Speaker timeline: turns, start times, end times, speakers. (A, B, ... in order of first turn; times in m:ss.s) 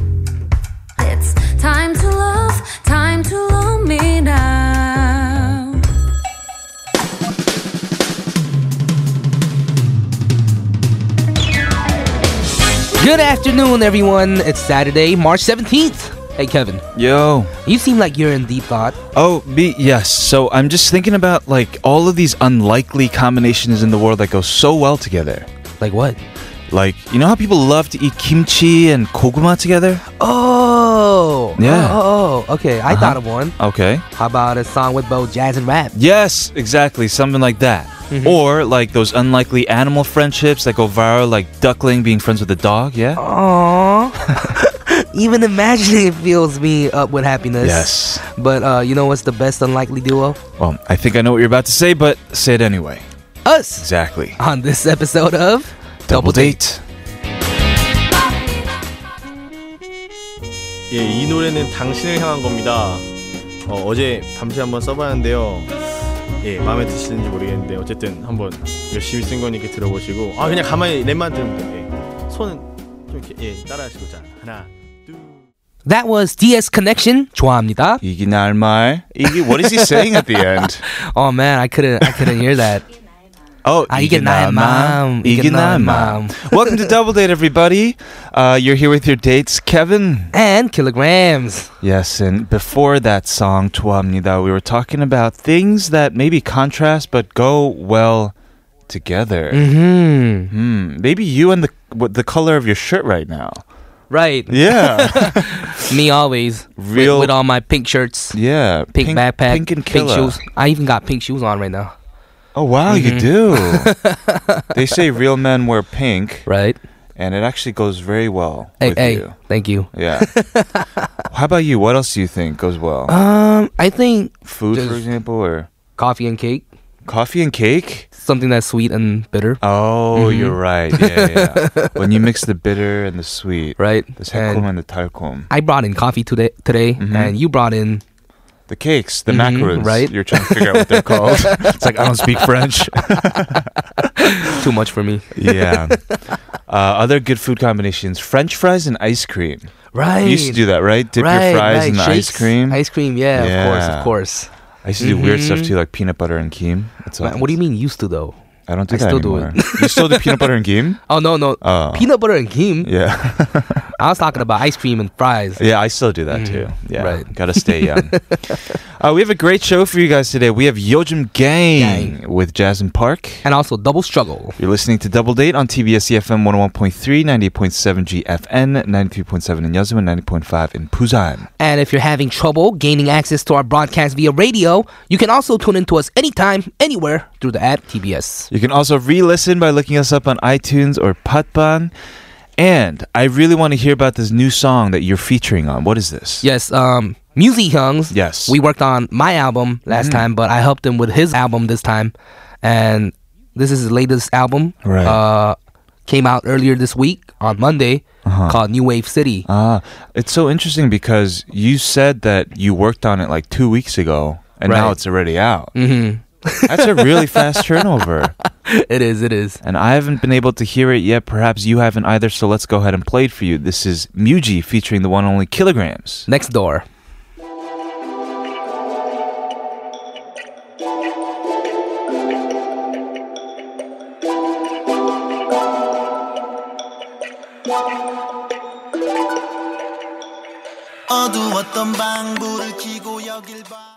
0:01.0-0:05.8 A
0:13.0-0:16.8 B
0:16.9-0:17.5 C
0:17.6-0:19.0 B
0:19.1-0:25.5 C
0:25.8-0:26.2 B
0:26.7-0:30.0 C
0:30.2-0:33.6 B
0:31.6-0:32.0 C
0:32.9-0:34.0 C
0:34.1-0:35.9 B
0:35.9-0:43.2 C
0:38.1-0:38.4 B
0:43.2-0:50.4 B
0:47.6-0:48.2 C
0:50.6-0:53.1 C
0:53.4-0:56.6 B
0:53.8-0:54.4 C
0:56.1-0:56.8 C
1:00.9-1:03.0 D
1:03.6-1:05.7 D
1:06.4-1:15.3 D
1:15.8-1:18.0 B
1:18.0-1:20.8 C
1:19.3-1:22.8 B
1:22.1-1:22.4 C
1:23.6-1:30.3 C
1:23.9-1:26.7 B
1:30.3-1:31.7 B
1:31.8-1:38.3 C
1:38.9-1:39.7 C
1:39.5-1:40.5 B
1:40.5-1:43.6 C
1:44.1-1:48.4 B
1:44.5-1:45.8 C
1:46.8-1:47.4 C
1:48.3-1:50.4 C
1:48.9-1:51.9 B
1:52.5-1:54.0 C
1:52.9-1:54.6 B
1:54.7-1:56.5 C
1:56.4-1:56.8 B
1:57.2-1:59.4 C
1:58.8-2:01.0 B
1:59.9-2:00.3 C
2:01.3-2:03.1 C
2:03.1-2:05.0 B
2:04.4-2:05.7 C
2:06.0-2:06.6 B
2:07.0-2:08.1 C
2:08.2-2:09.6 B
2:09.6-2:15.5 C
2:10.1-2:12.2 B
2:13.8-2:14.7 B
2:15.5-2:18.0 B
2:17.0-2:17.4 C
2:18.7-2:24.0 C
2:19.3-2:22.5 B
2:23.0-2:23.4 B
2:24.0-2:26.2 B
2:25.3-2:26.0 C
2:26.7-2:34.2 C
2:29.9-2:35.7 B
2:34.8-2:37.6 C
2:37.2-2:38.4 B
2:38.7-2:42.1 C
2:38.9-2:40.5 B
2:41.1-2:42.9 B
2:42.8-2:43.9 C
2:44.0-2:45.6 B
2:45.6-2:53.4 C
2:46.3-2:48.6 B
2:51.8-2:52.2 B
2:53.4-2:54.6 B
2:54.6-3:01.5 C
3:01.6-3:08.5 B
3:08.5-3:11.9 C
3:12.6-3:16.4 C
3:16.4-3:29.5 B
3:18.1-3:18.5 C
3:19.9-3:20.3 C
3:24.8-3:25.2 C
3:28.2-3:28.6 C
3:29.5-3:35.7 C
3:34.6-3:35.0 B
3:35.8-3:37.6 B
3:36.6-3:38.3 C
3:38.6-3:39.6 B
3:39.6-3:46.3 C
3:46.3-3:46.8 B
4:01.1-4:03.8 E